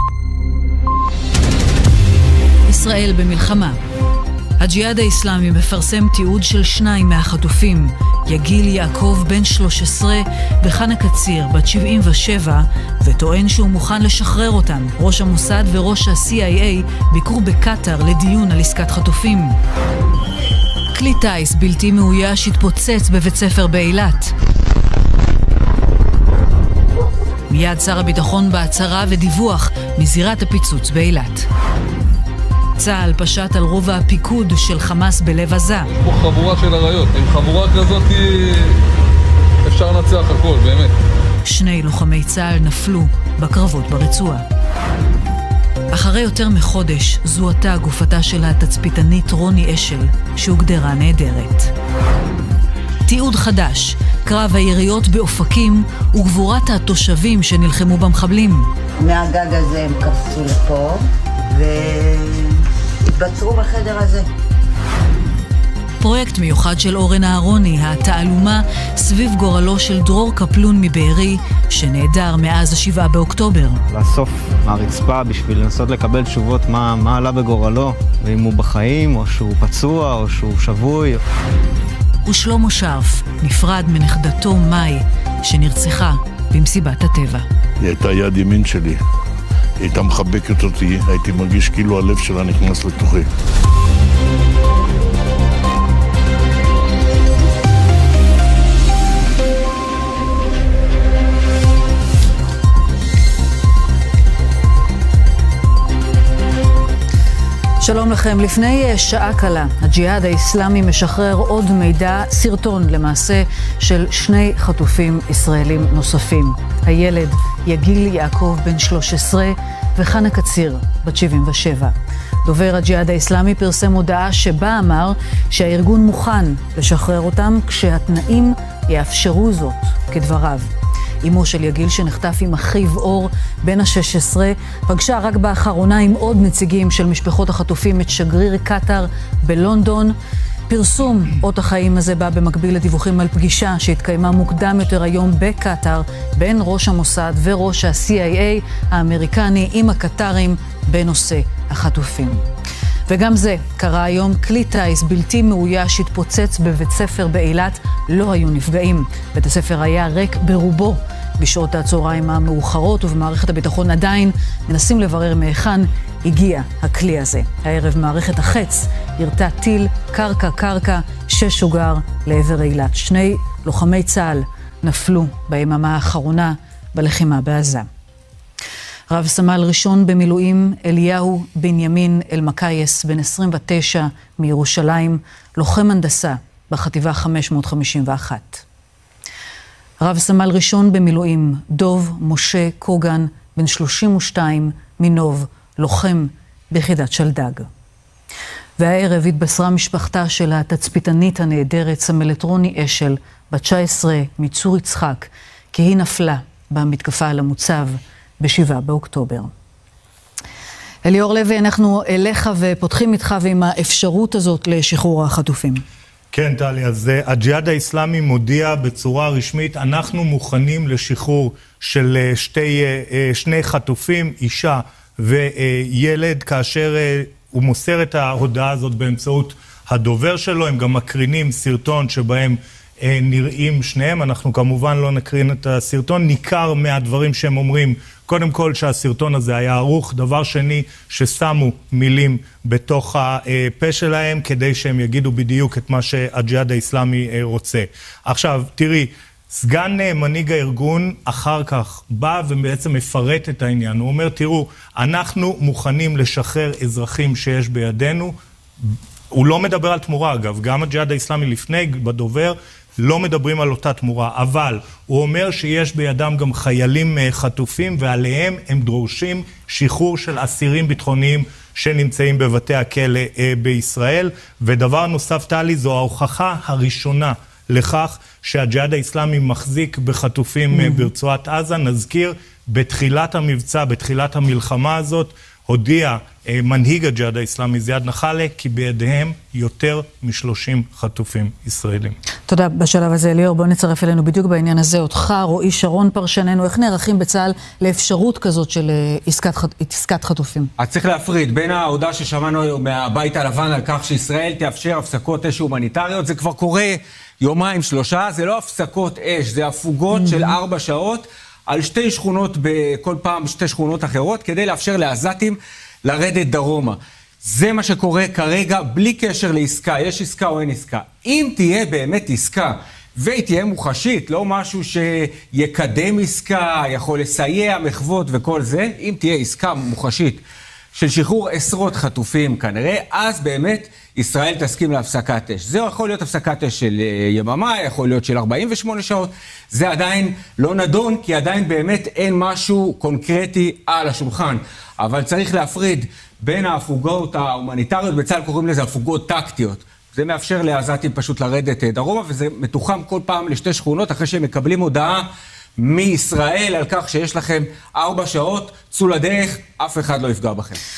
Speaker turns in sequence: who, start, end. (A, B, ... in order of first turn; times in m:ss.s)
0:02.7-0:03.8 A
0:04.6-0:19.6 A
0:20.9-0:24.3 A
0:27.5-0:31.5 A
0:32.8-0:35.9 A
0:35.9-0:38.8 B
0:39.6-0:40.9 B
0:41.4-0:44.4 A
0:45.9-0:51.7 A
0:53.0-0:58.7 A
0:59.0-1:02.6 C
1:03.2-1:04.3 C
1:06.0-1:13.8 A
1:13.9-1:21.2 D
1:22.3-1:27.4 A
1:27.8-1:29.0 E
1:29.8-1:33.3 E
1:47.8-2:10.7 A
2:11.2-2:20.2 A
2:20.7-2:32.4 A
2:33.1-2:57.9 A
2:59.1-3:08.6 A
3:10.0-3:17.7 A
3:18.8-3:29.5 A
3:31.0-3:35.8 A
3:36.3-4:18.3 F
4:19.3-4:52.1 F
4:40.7-4:41.1 A
4:52.5-5:00.7 A
5:00.8-5:30.4 G
5:10.1-5:10.6 A
5:30.9-5:55.3 G
5:55.8-6:00.8 G